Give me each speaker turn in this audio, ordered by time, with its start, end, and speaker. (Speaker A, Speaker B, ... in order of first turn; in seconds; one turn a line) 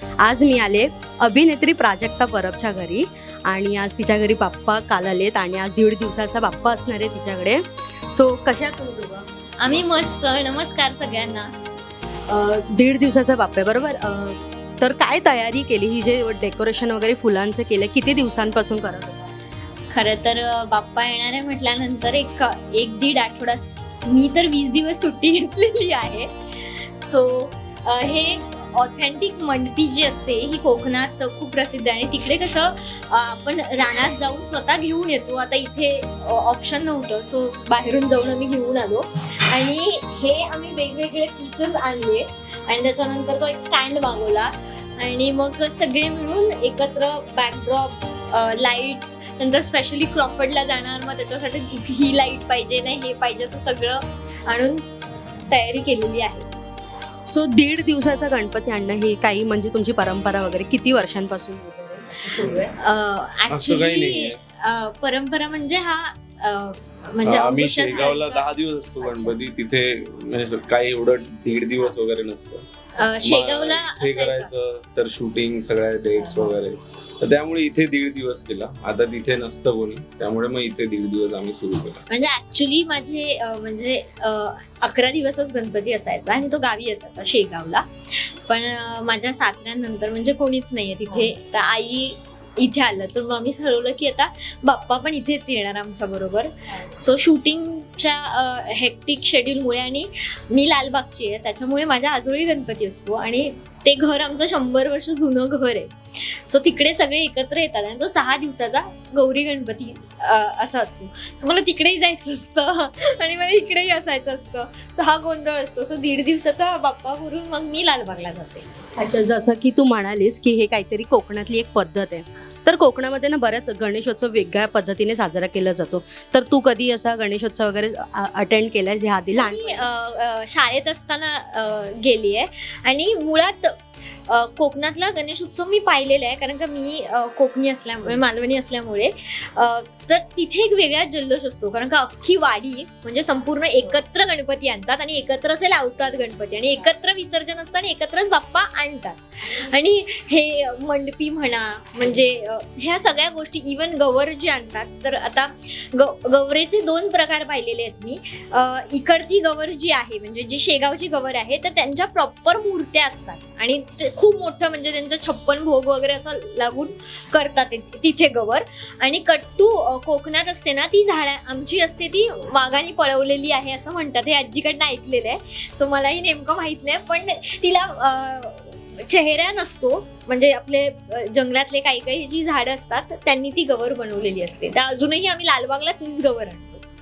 Speaker A: 0.2-9.2
Speaker B: 9.6-11.5
Speaker C: 9.7-10.1
Speaker A: 12.3-19.3
Speaker B: 19.9-54.9
Speaker B: 55.5-56.5
Speaker A: 57.3-62.7
Speaker C: 62.4-62.7
Speaker B: 62.8-68.4
Speaker C: 63.5-64.4
Speaker C: 67.2-72.7
Speaker B: 69.0-69.3
Speaker B: 73.0-74.5
Speaker C: 73.2-82.0
Speaker B: 82.1-118.7
Speaker A: 119.0-129.8
Speaker B: 129.3-186.8